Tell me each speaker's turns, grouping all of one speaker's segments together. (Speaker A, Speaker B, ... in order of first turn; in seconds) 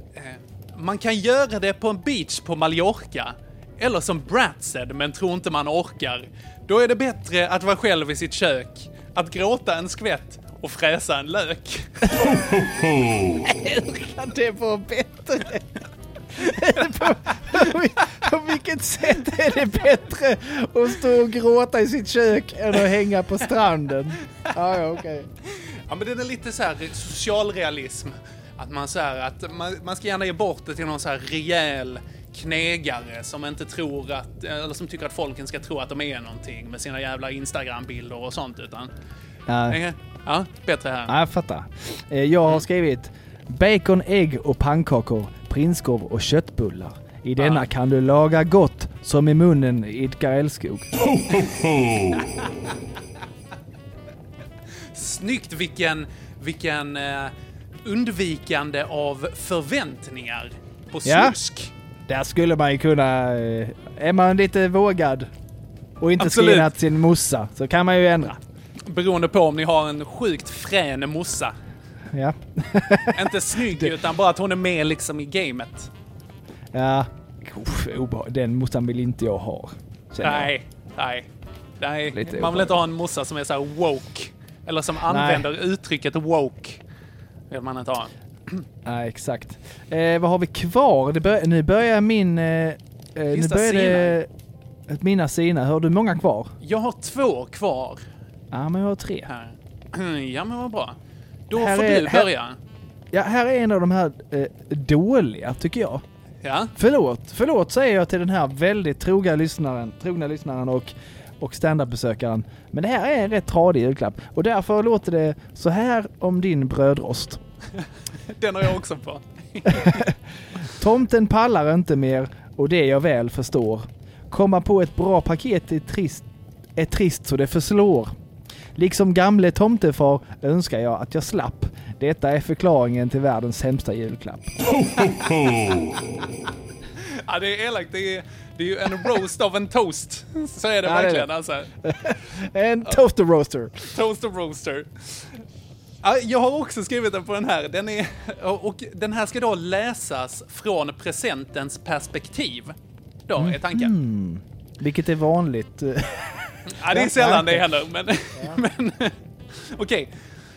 Speaker A: 0.1-12.1, 25.9-38.9, 39.7-41.1, 47.4-47.7, 54.9-57.3, 57.8-61.7, 66.2-66.7, 68.8-71.5, 73.1-75.9, 80.2-81.3, 81.8-86.8, 87.5-88.6, 93.3-94.2, 96.6-98.0, 99.2-101.0, 101.5-102.6, 106.4-106.7, 118.3-120.1, 137.2-141.7, 143.8-145.0, 146.0-152.7, 153.3-153.9, 156.7-160.1
Speaker B: 12.2-12.7, 13.2-15.8, 16.3-25.3, 39.5-39.8, 41.1-50.9, 61.0-61.4, 62.1-65.3, 66.0-68.4, 72.1-73.9, 76.7-80.5, 82.1-82.8, 85.0-85.5, 88.8-94.3, 94.9-96.5, 98.5-99.3, 101.5-102.3, 103.1-106.0, 106.8-117.4, 119.7-120.1, 120.7-126.2, 126.8-128.1, 128.8-134.6, 140.8-141.3, 141.8-143.9, 153.3-157.8, 158.3-158.6